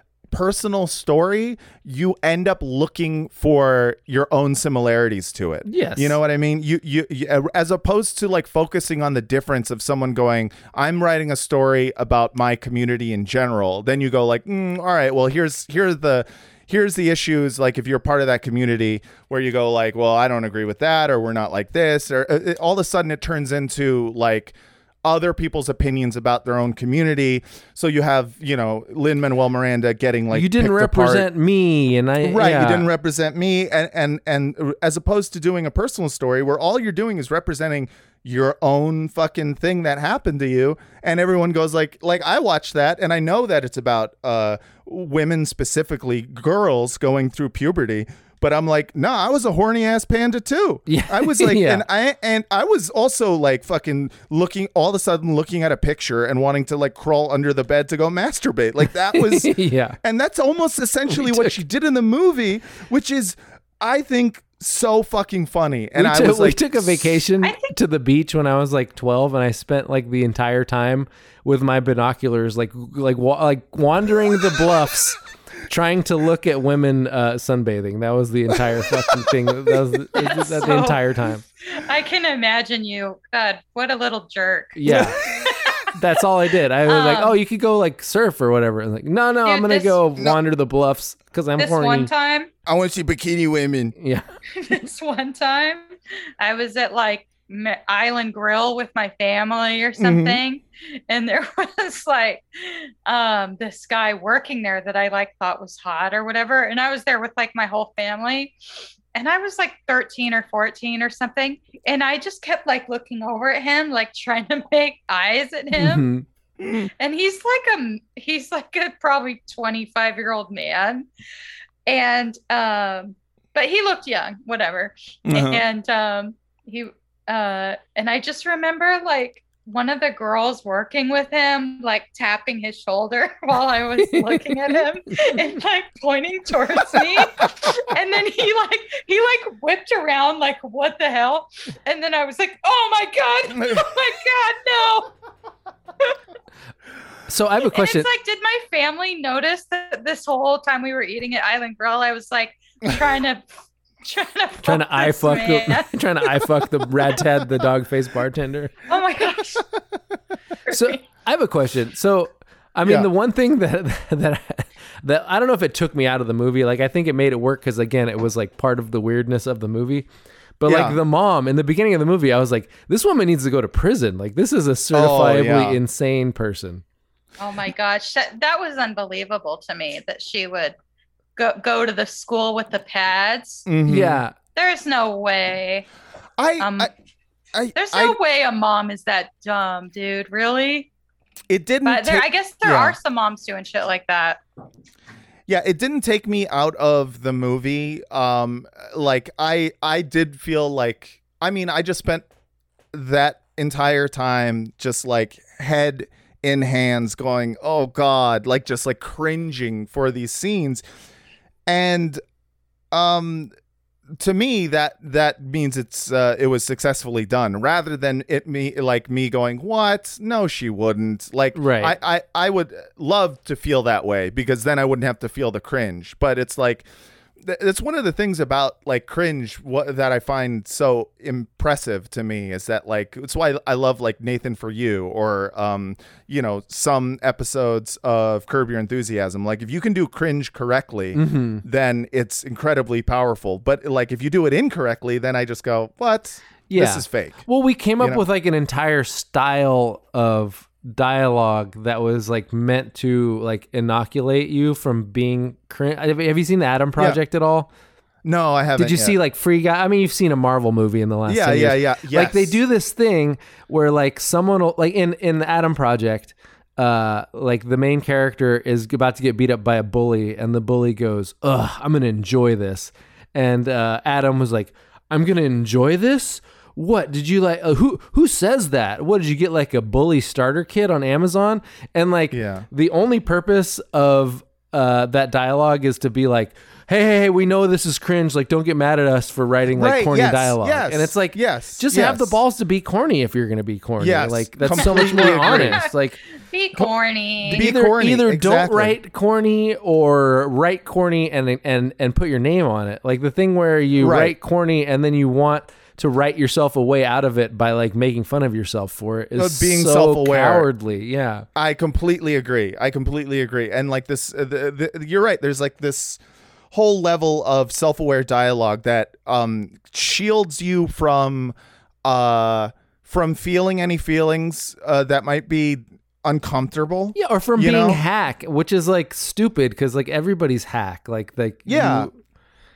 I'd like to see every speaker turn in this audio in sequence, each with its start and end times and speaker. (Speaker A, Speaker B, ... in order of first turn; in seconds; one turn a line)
Speaker A: 0.3-31.3
Speaker B: 5.7-6.2
Speaker B: 30.3-32.9
Speaker A: 32.2-67.1
Speaker B: 50.9-51.8
Speaker B: 59.1-60.0
Speaker B: 61.1-61.6
Speaker B: 66.0-81.4
Speaker C: 67.4-67.8
Speaker C: 80.2-85.9
Speaker B: 84.8-85.2
Speaker B: 85.9-92.1
Speaker C: 86.8-87.4
Speaker C: 89.4-90.0
Speaker C: 91.6-92.5
Speaker A: 92.7-93.9
Speaker B: 94.0-94.2
Speaker C: 94.5-95.9
Speaker C: 96.4-108.5
Speaker A: 100.0-100.4
Speaker C: 109.1-116.1
Speaker B: 115.8-116.2
Speaker C: 116.8-121.1
Speaker C: 121.8-145.1
Speaker A: 125.2-125.6
Speaker B: 134.0-134.8
Speaker B: 147.3-148.1
Speaker C: 147.6-153.4
Speaker C: 154.0-156.6
Speaker B: 154.6-158.8
Speaker C: 158.9-159.7
Speaker C: 160.7-161.0
Speaker B: 160.7-170.1
Speaker A: 162.8-163.1
Speaker B: 170.6-176.8
Speaker A: 170.7-171.0
Speaker A: 174.9-175.8
Speaker C: 177.4-180.7
Speaker C: 181.3-183.7
Speaker A: 183.7-184.2
Speaker B: 183.8-184.3
Speaker C: 184.5-185.8
Speaker A: 186.4-186.9
Speaker C: 186.6-186.9
Speaker A: 187.5-188.2
Speaker C: 187.7-190.9
Speaker A: 191.5-193.0
Speaker C: 191.8-194.4
Speaker A: 195.5-202.2
Speaker A: 202.9-210.8
Speaker A: 211.7-212.2
Speaker A: 212.9-213.5
Speaker A: 214.2-226.8
Speaker B: 221.5-221.9
Speaker A: 227.4-247.4
Speaker B: 241.1-241.6
Speaker B: 246.7-257.7
Speaker A: 258.2-259.1
Speaker B: 258.8-296.2
Speaker A: 261.3-262.6
Speaker A: 282.3-282.7
Speaker A: 289.7-292.4
Speaker A: 294.0-295.8
Speaker C: 294.8-297.7
Speaker A: 297.4-298.9
Speaker B: 297.5-311.5
Speaker A: 304.0-304.3
Speaker A: 309.4-310.7
Speaker A: 311.5-316.2
Speaker A: 316.7-328.0
Speaker B: 327.1-332.1
Speaker A: 331.6-332.1